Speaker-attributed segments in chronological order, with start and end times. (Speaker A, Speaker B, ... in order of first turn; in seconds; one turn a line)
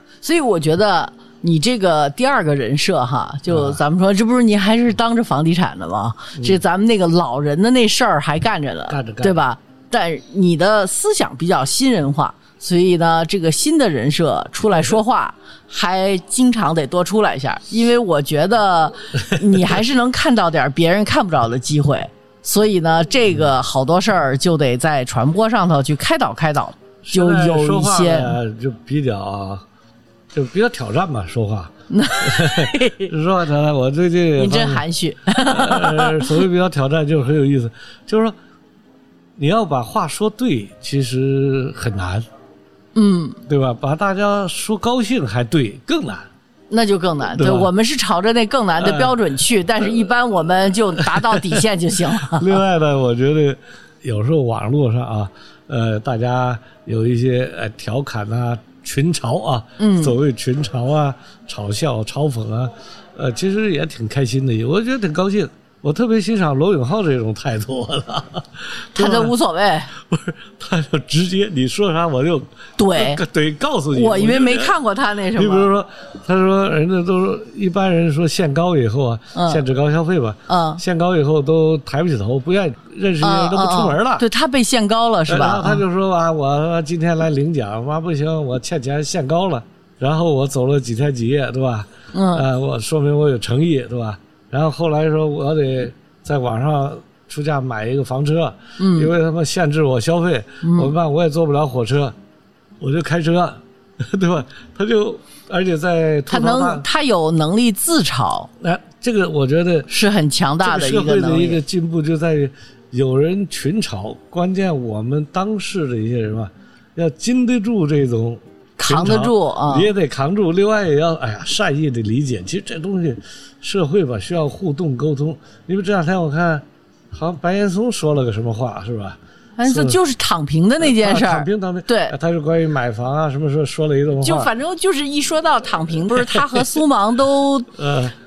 Speaker A: 0.2-28.4
Speaker B: 3.5-3.8
Speaker B: 6.4-6.6
Speaker B: 8.9-9.4
Speaker B: 27.0-29.6
Speaker B: 30.3-38.4
Speaker A: 31.9-33.1
Speaker A: 34.4-36.5
Speaker B: 39.4-42.3
Speaker A: 43.0-43.4
Speaker B: 43.5-46.3
Speaker A: 46.7-52.6
Speaker B: 47.3-47.7
Speaker B: 48.8-49.2
Speaker B: 50.9-69.3
Speaker A: 59.8-60.2
Speaker A: 69.0-69.9
Speaker B: 69.9-74.8
Speaker A: 72.8-73.2
Speaker A: 73.9-75.7
Speaker B: 75.3-84.3
Speaker A: 79.3-79.6
Speaker A: 80.5-80.8
Speaker A: 83.2-85.8
Speaker B: 85.3-102.2
Speaker A: 92.1-92.4
Speaker A: 98.8-99.1
Speaker A: 100.6-100.9
Speaker B: 102.8-106.9
Speaker A: 106.3-108.5
Speaker B: 108.6-109.9
Speaker A: 109.9-111.6
Speaker B: 110.6-130.0
Speaker A: 118.8-119.9
Speaker A: 129.6-132.2
Speaker B: 130.8-134.5
Speaker A: 134.2-137.8
Speaker B: 136.3-136.7
Speaker B: 137.7-138.1